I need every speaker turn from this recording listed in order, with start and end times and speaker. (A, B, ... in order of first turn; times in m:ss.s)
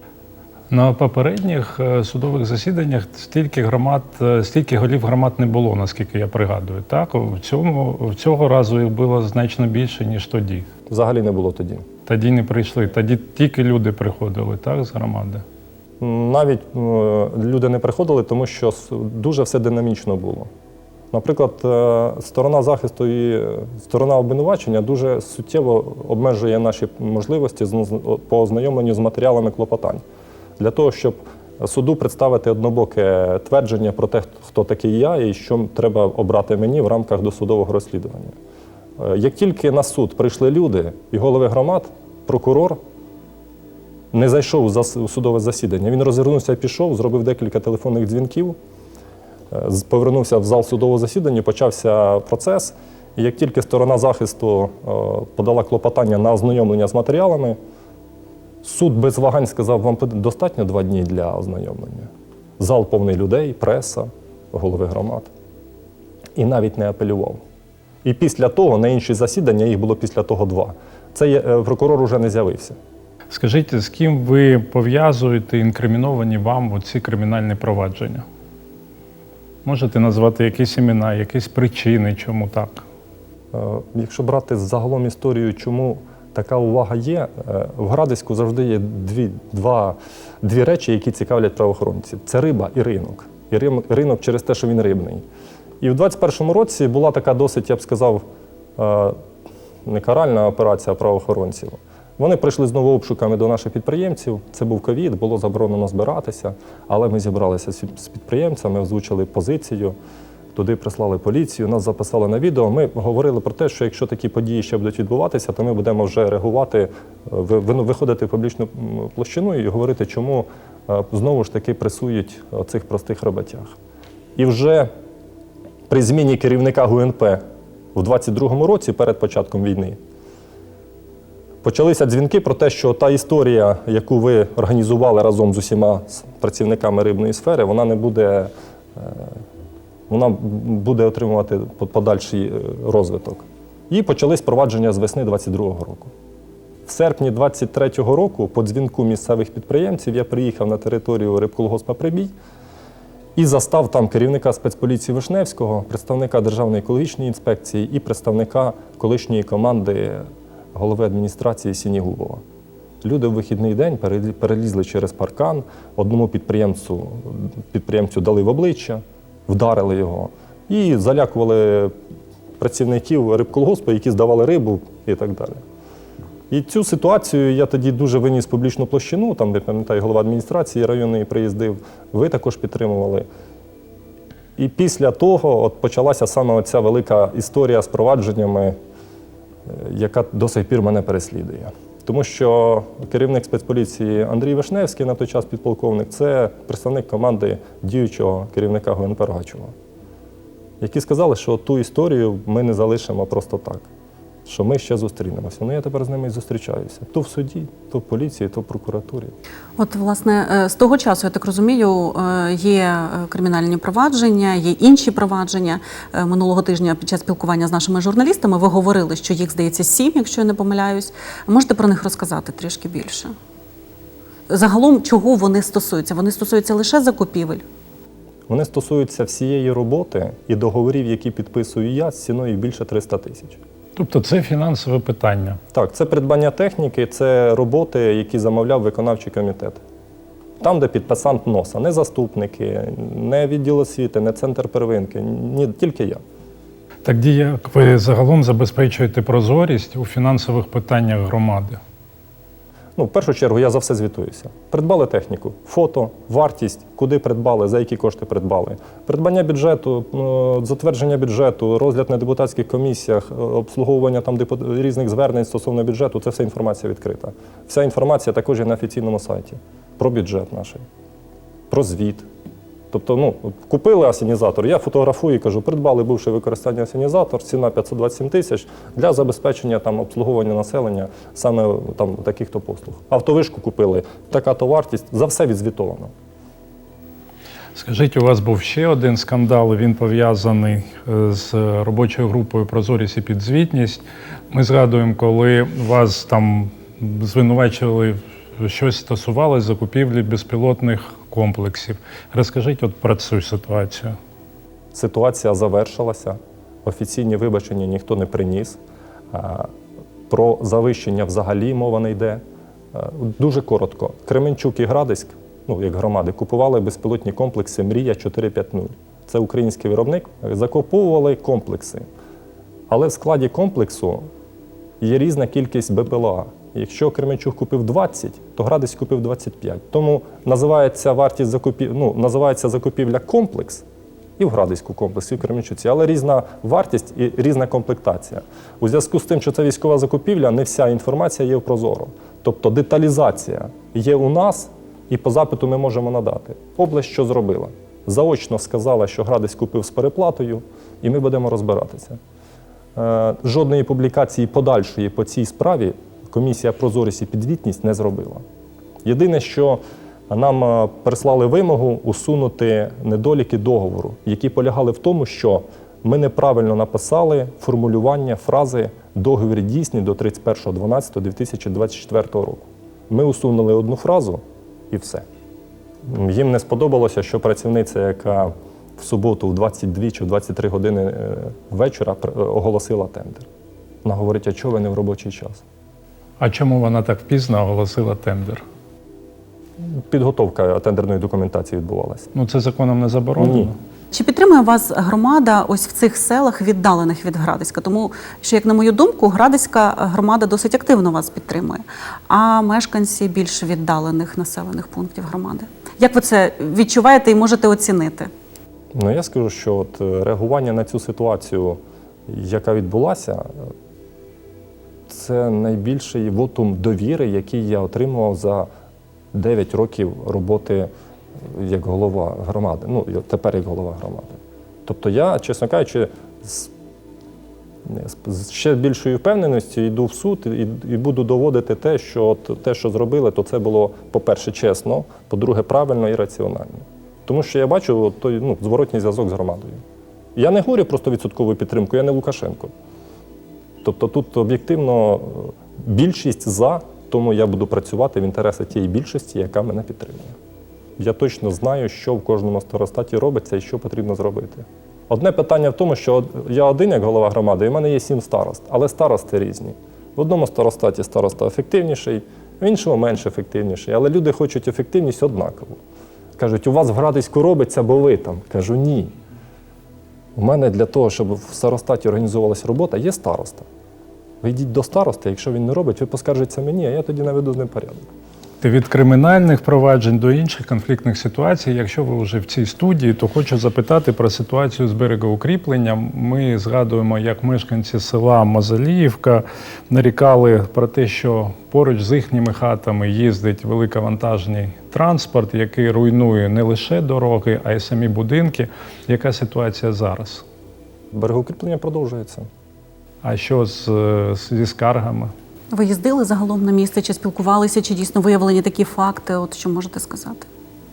0:00.7-0:10.7 A
0:10.9-0:11.9 B
0:12.0-0:15.4 A
0:16.0-0:20.5 B
0:21.1-0:30.0 B
0:30.6-0:38.4 B
0:39.0-0:42.8 B
0:44.1-0:48.6 B
0:49.5-0:57.6 B
0:58.6-1:05.3 B
1:06.3-1:07.4 B
1:08.0-1:12.8 B
1:13.3-1:18.2 A
1:19.6-1:22.8 A
1:23.5-1:35.2 B
1:35.8-1:38.2 B
1:38.8-1:39.2 B
1:39.8-1:49.9 B
1:50.5-2:03.8 B
2:04.4-2:04.9 B
2:05.9-2:07.4 B
2:07.9-2:10.0 B
2:11.6-2:19.4 B
2:20.1-2:26.1 B
2:26.8-2:32.3 B
2:33.4-2:42.4 B
2:43.0-2:51.9 B
2:52.6-2:55.6 B
2:56.5-3:03.2 B
3:04.6-3:08.8 B
3:09.6-3:19.7 B
3:20.8-3:23.9 B
3:24.4-3:29.3 B
3:29.8-3:43.3 C
3:44.5-3:47.6 C
3:48.5-3:53.6 B
3:54.0-3:55.6 A
3:55.7-3:59.8 B
4:00.6-4:06.2 B
4:07.0-4:11.8 A
4:13.0-4:30.8 B
4:31.7-4:32.3 B
4:32.9-4:46.1 B
4:47.7-5:04.2 A
5:04.9-5:08.8 B
5:09.3-5:09.7 B
5:10.3-5:12.4 B
5:12.9-5:22.1 B
5:22.9-5:24.3 B
5:25.0-5:33.8 B
5:34.4-5:52.2 B
5:52.9-5:58.4 B
5:59.0-6:15.2 B
6:16.0-6:23.5 B
6:24.0-6:25.6 B
6:26.4-6:28.6 A
6:29.8-6:32.3 B
6:32.3-6:33.8 A
6:33.4-6:33.7 B
6:34.1-6:48.3 C
6:48.9-6:53.7 B
6:55.1-6:58.7 B
6:59.3-7:06.7 B
7:07.8-7:19.8 B
7:20.4-7:22.7 B
7:23.8-7:30.4 B
7:31.0-7:45.8 B
7:46.4-7:49.1 B
7:50.4-7:53.7 B
7:54.4-7:58.1 B
7:58.6-8:20.4 A
8:21.1-8:22.5 B
8:23.2-8:25.3 A
8:25.7-8:30.4 C